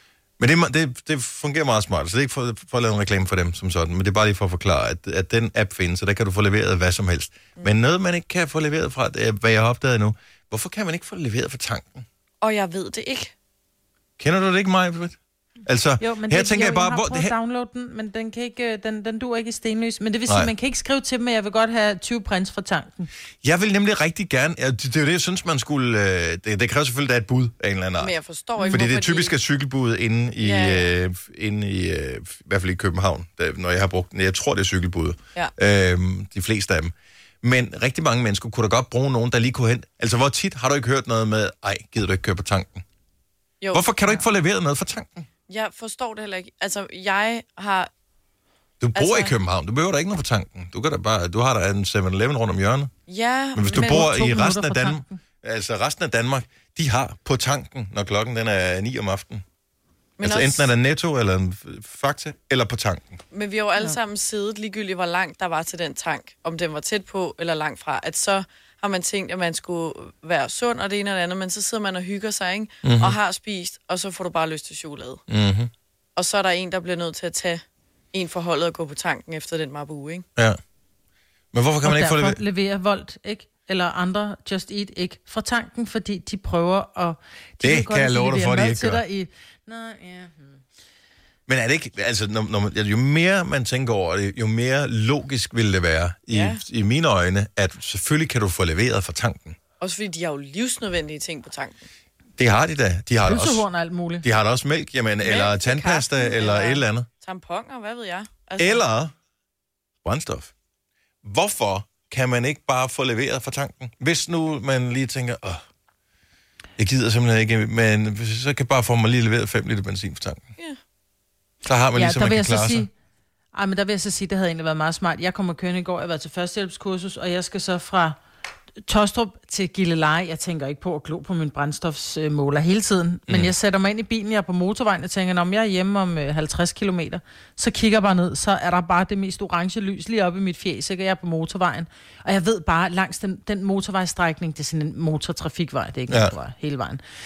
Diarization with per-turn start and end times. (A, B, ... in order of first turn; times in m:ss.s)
0:00.4-0:12.1 A
0:12.4-0:13.3 B
0:14.2-0:17.3 A
0:16.0-0:23.1 C
0:23.4-0:28.1 A
0:28.0-0:29.4 B
0:28.6-0:28.8 C
0:28.7-0:42.8 A
0:30.4-0:30.9 B
0:43.6-0:44.2 B
0:43.7-0:45.3 A
0:45.5-0:47.9 B
0:48.8-0:52.9 A
0:49.0-0:49.3 B
0:53.1-0:54.1 B
0:53.6-0:59.4 A
0:53.7-0:55.2 C
1:00.2-1:00.7 B
1:00.2-1:03.2 A
1:03.3-1:15.2 B
1:12.8-1:13.2 A
1:15.3-1:15.7 A
1:16.2-1:20.3 B
1:21.5-1:22.4 A
1:21.8-1:30.6 C
1:27.6-1:29.0 A
1:31.5-1:39.6 A
1:36.3-1:36.6 B
1:39.8-1:41.8 B
1:42.4-1:43.6 A
1:43.2-1:44.3 C
1:44.2-1:47.1 A
1:45.2-1:48.8 B
1:48.6-1:49.1 A
1:50.0-1:50.5 A
1:51.2-1:55.6 A
1:56.8-2:00.5 A
2:01.6-2:02.9 A
2:01.9-2:02.9 C
2:03.5-2:08.2 C
2:08.9-2:27.0 C
2:26.1-2:26.4 A